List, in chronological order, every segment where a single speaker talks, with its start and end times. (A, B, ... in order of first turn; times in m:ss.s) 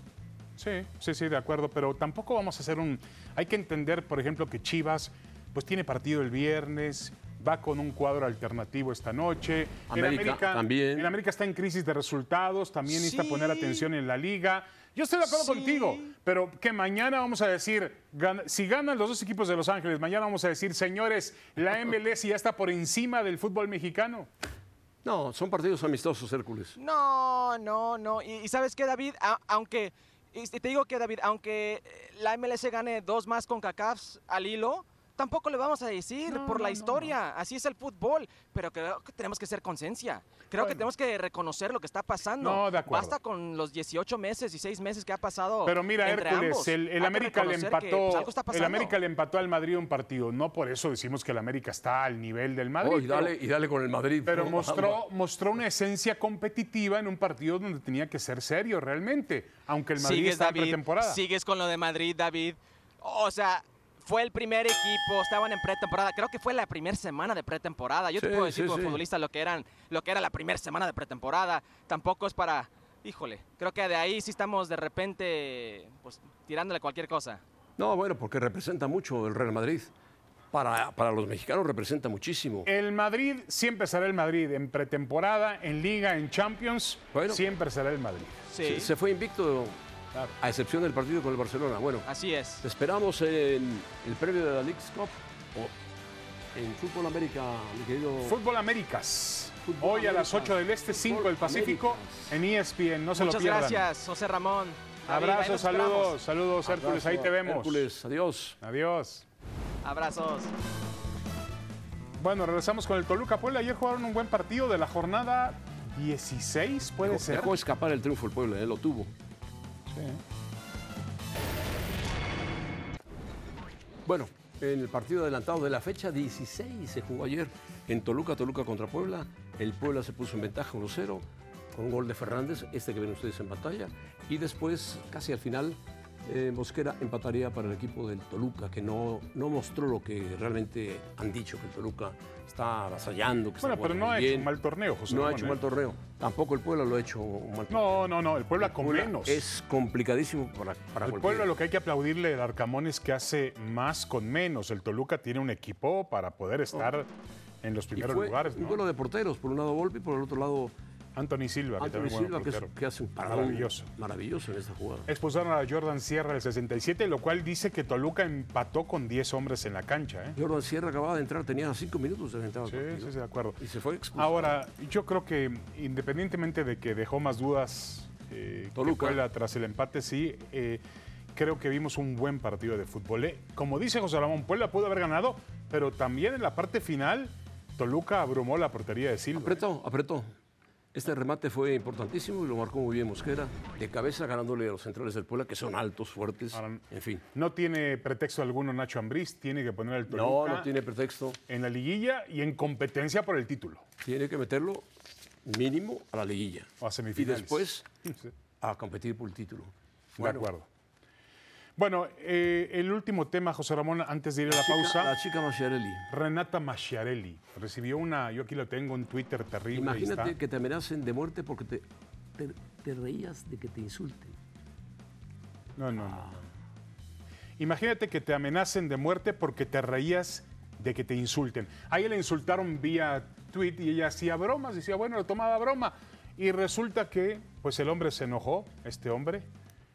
0:00.6-0:24.3 A
0:09.9-0:11.1 B
0:13.0-0:13.9 C
0:15.3-0:16.1 C
0:25.0-0:26.8 B
0:26.8-0:49.0 C
0:36.3-0:37.2 A
0:40.5-0:40.9 A
0:42.4-0:43.2 A
0:45.6-0:53.3 A
0:52.8-0:55.0 B
0:54.2-1:01.2 A
1:00.0-1:17.4 C
1:08.2-1:09.0 B
1:17.8-1:19.9 B
1:20.5-1:22.7 B
1:22.6-1:28.4 A
1:27.1-1:27.4 B
1:28.5-1:28.9 C
1:28.6-1:29.8 B
1:30.4-1:32.1 B
1:32.0-1:32.6 C
1:32.6-1:35.7 B
1:36.5-1:38.4 B
1:38.2-1:43.8 A
1:39.6-1:42.4 B
1:43.1-1:46.2 C
1:45.0-1:47.9 A
1:46.6-1:48.6 B
1:48.6-1:49.2 A
1:49.8-1:50.5 C
1:52.2-1:57.6 A
1:57.0-1:59.1 B
1:59.9-2:00.2 A
2:04.0-2:24.5 B
2:23.6-2:25.6 A
2:25.1-2:31.5 B
2:27.7-2:29.4 A
2:31.0-2:37.1 A
2:37.6-2:38.8 A
2:37.9-2:40.7 B
2:41.2-2:42.7 A
2:41.8-2:45.1 B
2:43.2-2:43.9 A
2:45.1-2:50.4 A
2:50.3-2:54.5 B
2:52.7-2:53.6 A
2:54.2-3:00.8 A
2:58.7-2:59.2 B
3:01.3-3:09.6 A
3:09.3-3:10.3 B
3:10.9-3:17.2 B
3:16.5-3:20.7 A
3:20.1-3:21.4 B
3:21.5-3:23.8 A
3:24.0-3:24.8 B
3:25.4-3:27.8 B
3:26.8-3:28.3 A
3:28.6-3:30.5 B
3:30.2-3:30.7 A
3:31.8-3:35.1 A
3:34.5-3:36.1 B
3:36.1-3:40.3 A
3:39.7-3:41.8 B
3:42.4-3:44.3 B
3:45.8-3:46.4 A
3:46.0-3:46.4 B
3:47.6-3:59.5 A